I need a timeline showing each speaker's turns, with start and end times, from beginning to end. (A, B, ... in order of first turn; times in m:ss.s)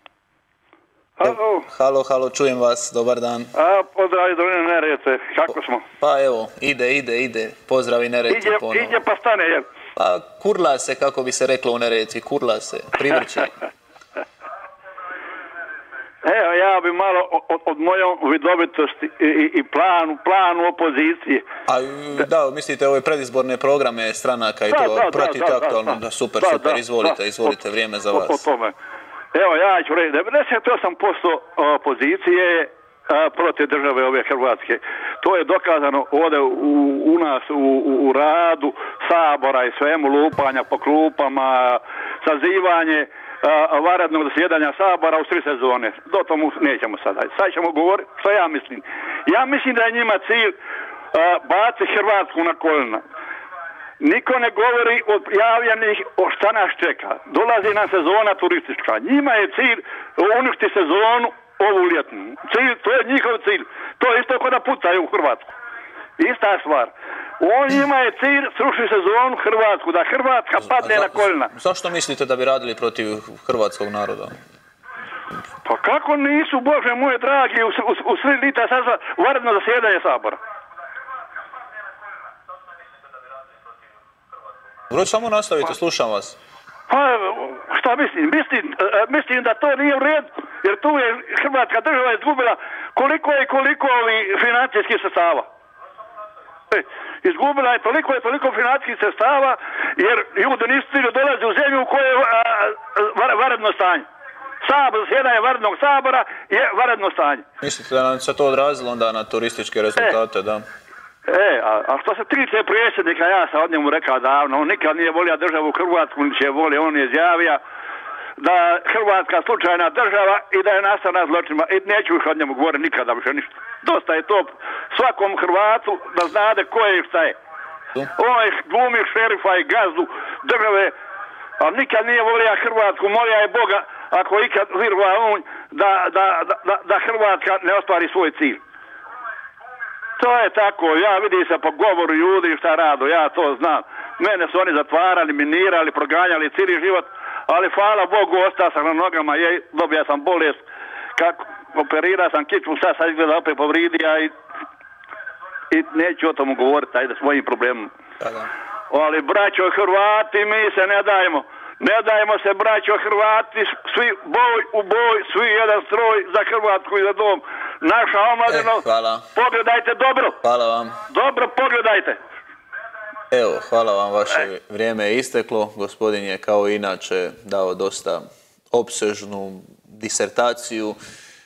0:01.2-0:01.6 A
0:01.2-0:03.5 B
0:03.5-0:05.8 A
0:06.0-0:09.0 B
0:08.3-0:09.7 A
0:10.0-0:13.5 B
0:16.2-0:21.4 A
0:21.7-0:28.4 B
0:24.7-0:27.2 A
0:28.1-0:28.7 A
0:29.3-0:50.5 A
0:51.1-0:53.0 A
0:54.0-1:05.5 A
1:06.2-1:11.5 A
1:10.6-1:14.4 B
1:15.6-1:20.4 A
1:24.9-1:26.4 B
1:26.9-1:35.5 A
1:36.7-1:44.0 A
1:44.6-1:47.4 A
1:47.6-1:50.6 B
1:51.3-1:57.6 A
1:58.4-2:07.4 A
2:08.2-2:10.9 A
2:11.6-2:18.6 A
2:20.2-2:30.6 A
2:31.2-2:34.3 A
2:35.7-2:37.9 A
2:38.2-2:38.5 B
2:38.9-2:48.8 A
2:48.5-2:49.3 B
2:49.3-2:50.4 A
2:50.4-2:51.0 B
2:51.1-2:52.2 A
2:53.3-3:01.0 B